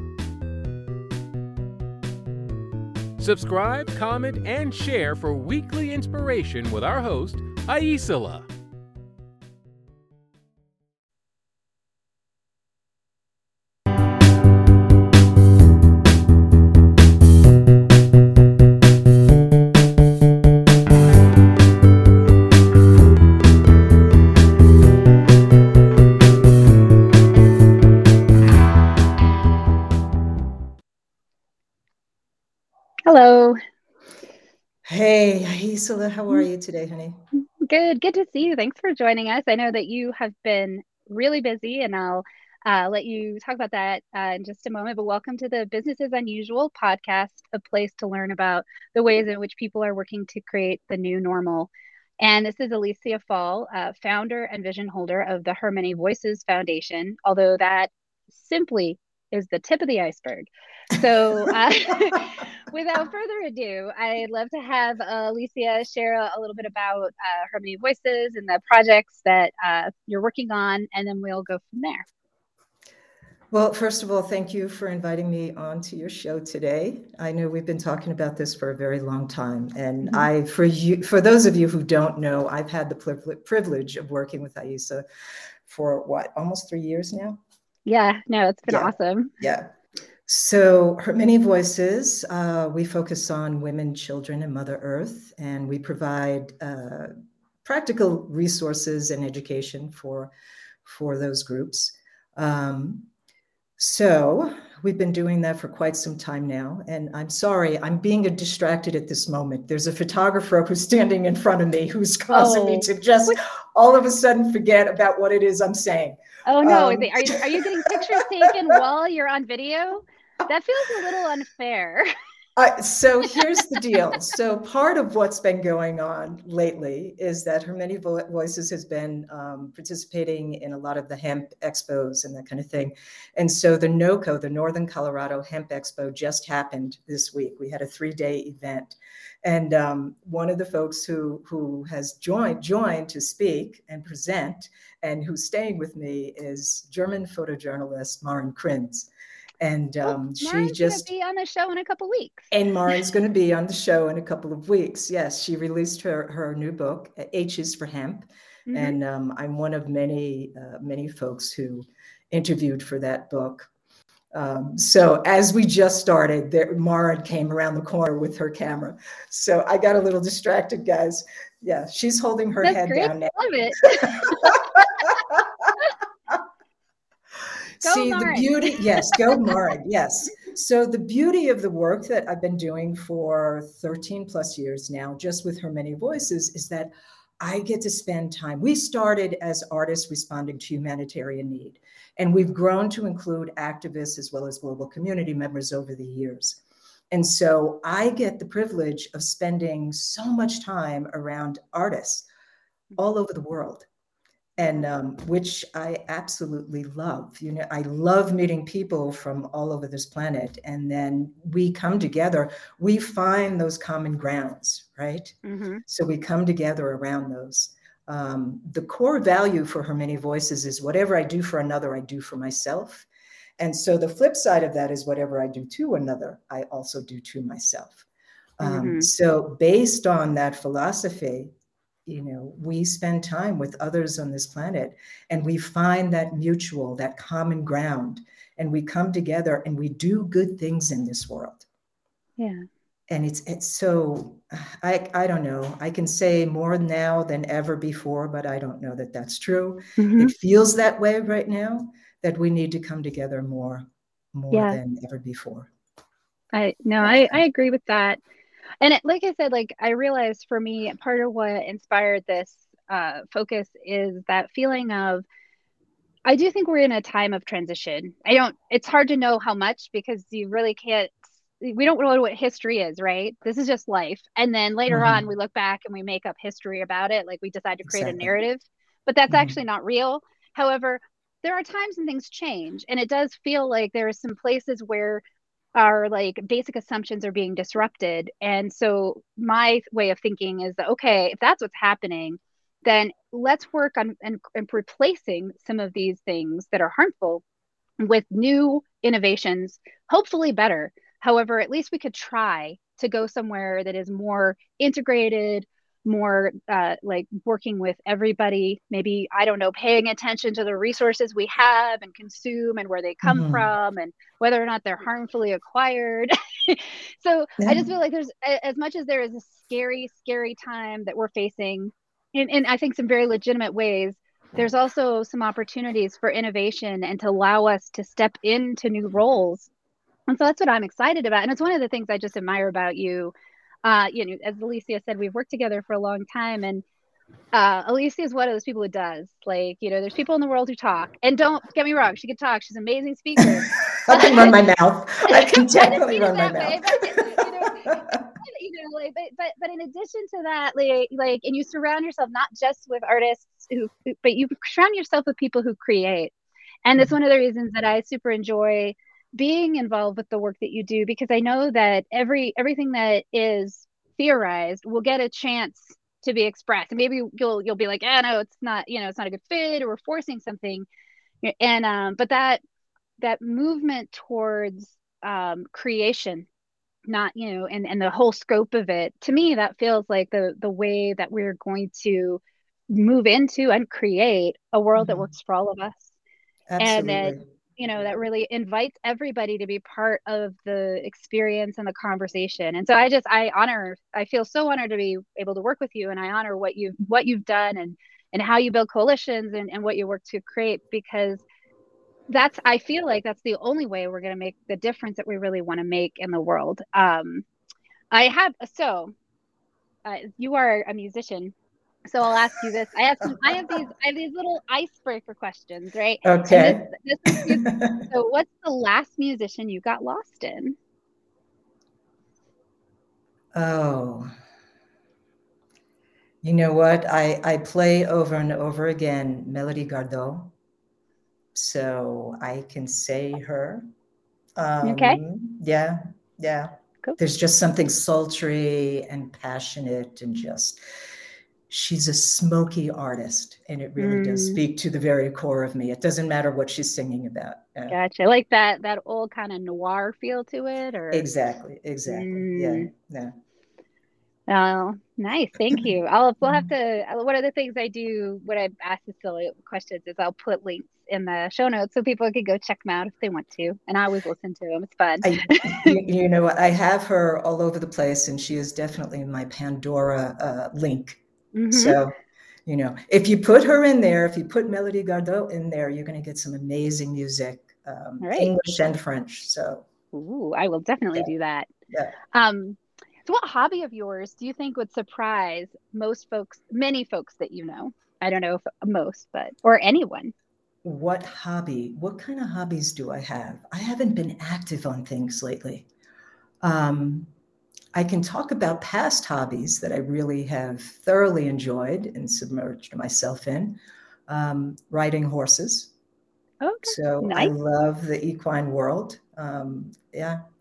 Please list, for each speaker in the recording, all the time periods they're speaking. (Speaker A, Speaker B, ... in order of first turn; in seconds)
Speaker A: 3.2-8.5
Speaker B: 33.1-33.6, 37.4-72.1, 87.9-89.3, 112.3-113.4, 116.5-122.1, 150.1-152.5, 158.7-159.0, 172.6-174.8, 177.8-179.3, 215.4-215.8, 228.6-229.1, 242.4-242.7, 250.0-250.3, 254.5-254.8, 256.5-258.2, 258.8-265.2, 266.3-285.2, 285.8-297.4, 298.0-329.7, 330.3-333.3, 333.8-336.8, 337.5-344.6, 345.3-356.3, 356.9-370.9, 371.4-372.6, 373.2-376.5, 377.1-386.2, 386.8-401.4, 402.3-407.4, 408.1-409.1, 410.1-411.6, 412.1-420.8, 434.8-435.2, 444.0-444.6, 447.9-451.3, 452.1-452.9, 454.5-466.0, 471.5-472.0, 478.2-478.5, 480.1-481.7, 482.3-490.3, 506.6-507.5
Speaker C: 34.9-37.2, 73.5-85.0, 85.7-87.4, 88.7-89.7, 90.3-97.1, 97.6-100.3, 100.8-103.1, 103.8-118.7, 122.6-149.1, 149.6-151.1, 152.5-163.7, 164.3-173.4, 173.9-175.7, 177.8-196.6, 197.1-202.3, 203.0-203.9, 204.6-223.1, 223.6-228.1, 228.6-231.5, 232.1-241.7, 243.1-255.7, 257.0-257.4, 274.9-275.2, 277.9-278.3, 279.3-279.6, 313.2-313.6, 344.0-348.3, 385.0-385.3, 386.7-387.4, 416.2-418.1, 423.5-424.3, 426.4-430.5, 431.6-433.9, 434.6-440.8, 441.7-447.9, 451.1-453.4, 456.4-456.7, 465.2-472.1, 472.7-479.9, 490.8-495.9, 496.6-497.3, 497.9-505.9, 506.8-510.4